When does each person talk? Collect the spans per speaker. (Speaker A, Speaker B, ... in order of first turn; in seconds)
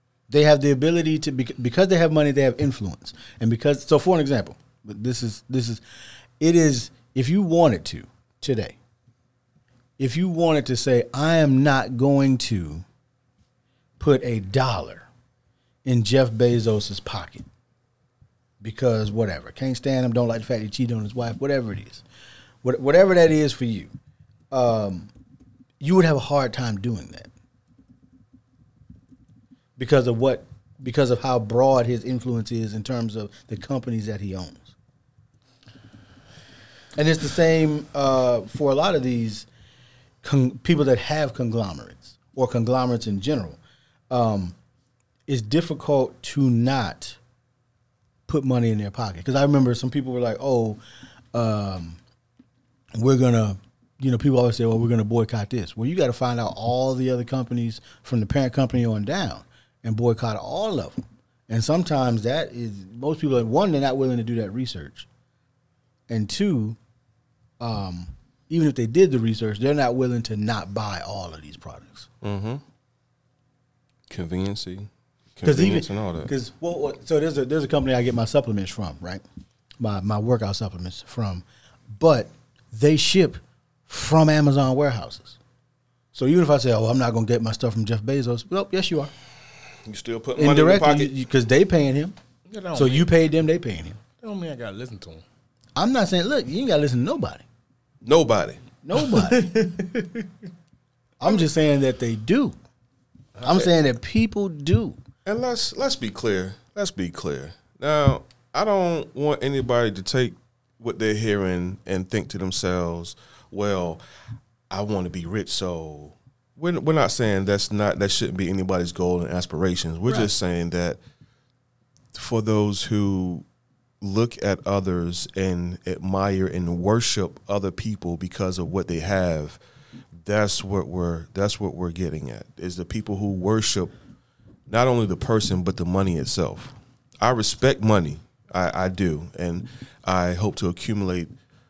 Speaker A: 0.3-5.8, 6.4-8.8, 10.0-12.8, 14.0-15.1, 15.8-17.5, 18.6-22.0, 22.6-23.9, 24.5-25.1, 25.8-27.3, 29.8-34.7, 37.0-39.5, 40.2-44.5, 45.3-47.2, 48.3-50.8, 51.3-52.0, 53.0-65.1, 66.1-66.8, 67.6-72.1, 75.4-79.2, 79.8-81.4, 82.0-85.4, 86.1-89.1, 90.4-92.1, 92.7-94.0, 95.8-97.4, 98.8-99.5, 101.2-102.5, 103.4-105.0
Speaker B: 72.2-72.6, 74.1-76.3, 89.8-91.1, 98.0-98.6, 105.2-114.0, 114.7-121.0, 122.1-123.4, 124.0-129.6, 130.2-133.9, 134.7-141.3
Speaker C: 92.5-93.1, 94.2-95.2, 98.9-100.3, 103.4-103.7